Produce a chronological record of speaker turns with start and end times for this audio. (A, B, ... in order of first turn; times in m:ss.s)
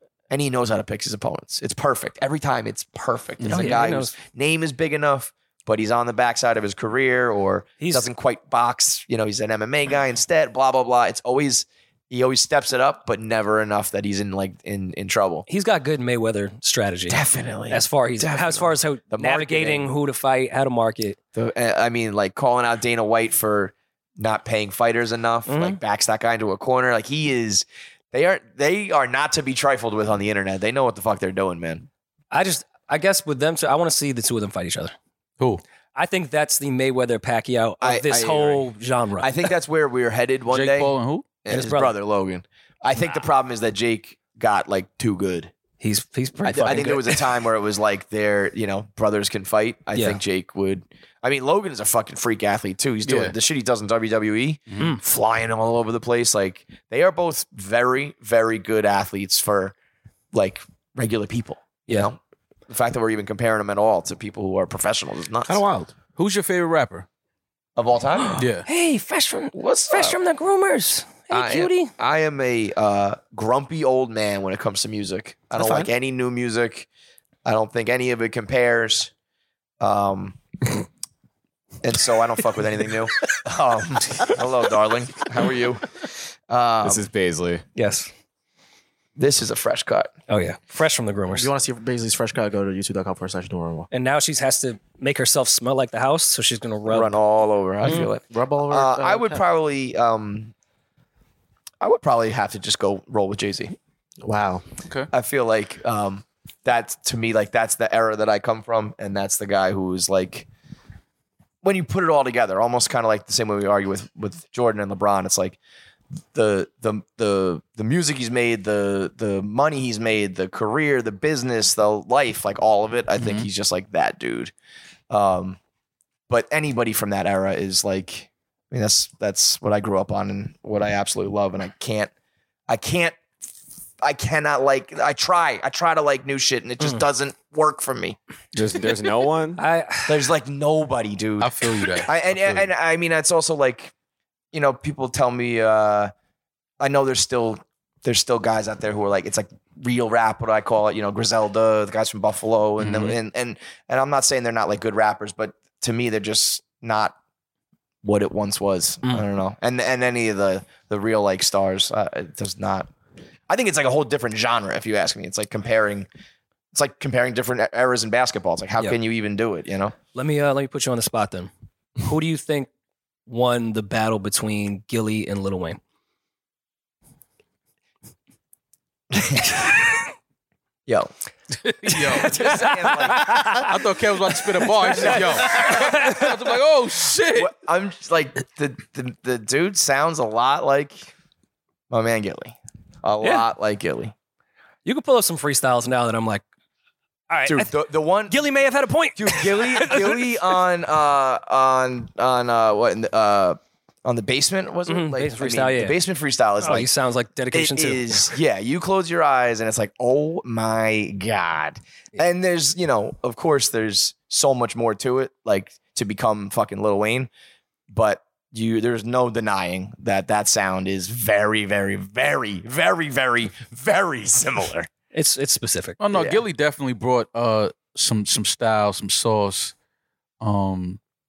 0:00.3-0:15.4 A
0:03.4-0:03.8 B
0:03.5-0:04.1 C
0:07.8-0:08.1 C
0:15.5-0:21.2 C
0:17.1-0:19.9 A
0:21.3-0:31.8 A
0:25.4-0:25.8 C
0:32.3-0:34.9 C
0:35.9-0:39.3 C
0:37.8-0:38.7 A
0:39.2-0:45.5 A
0:40.5-0:41.3 B
0:41.5-0:41.9 C
0:45.8-0:47.2 C
0:46.4-0:59.7 A
0:49.9-0:50.2 C
0:53.0-0:53.3 B
1:00.3-1:05.6 A
1:05.5-1:05.9 D
1:06.2-1:07.1 B
1:07.8-1:08.4 A
1:08.2-1:11.9 C
1:08.4-1:08.6 B
1:09.5-1:10.2 A
1:11.3-1:16.9 A
1:15.5-1:15.9 D
1:17.4-1:19.1 A
1:19.8-1:20.4 A
1:21.8-1:27.0 A
1:26.8-1:27.6 E
1:27.7-1:28.1 C
1:29.2-1:30.1 A
1:30.3-1:31.5 C
1:31.3-1:33.9 D
1:33.9-1:37.1 C
1:36.9-1:40.5 A
1:37.8-1:38.1 C
1:38.2-1:39.4 D
1:41.8-1:43.7 A
1:44.2-1:44.6 D
1:45.1-1:50.5 A
1:51.6-1:55.6 A
1:56.3-2:04.5 A
2:03.2-2:03.5 B
2:05.1-2:05.6 A
2:06.3-2:12.1 A
2:12.7-2:13.2 A
2:14.0-2:18.2 A
2:18.5-2:19.6 E
2:19.6-2:20.2 C
2:20.1-2:23.9 A
2:21.4-2:22.7 B
2:24.5-2:26.1 A
2:26.8-2:37.2 A
2:32.8-2:33.1 B
2:38.0-2:42.9 A
2:43.5-2:46.1 A
2:46.7-2:49.9 A
2:50.1-2:51.5 C
2:52.0-2:52.7 C
2:53.3-2:55.8 C
2:59.1-2:59.6 A
3:00.9-3:01.1 A
3:01.6-3:02.3 B
3:01.8-3:03.8 A
3:02.3-3:03.7 C
3:03.4-3:07.5 B
3:04.8-3:06.1 A
3:04.9-3:06.2 C
3:07.3-3:11.1 A
3:11.9-3:14.1 A
3:14.8-3:16.4 C
3:17.3-3:17.7 C
3:17.4-3:18.4 A
3:18.3-3:20.3 C
3:19.2-3:26.9 A
3:24.9-3:26.0 C
3:26.6-3:28.3 C
3:27.5-3:37.3 A
3:37.9-3:44.9 A
3:45.1-3:46.0 C
3:46.0-3:49.7 B
3:46.1-3:46.4 A
3:50.4-3:51.0 B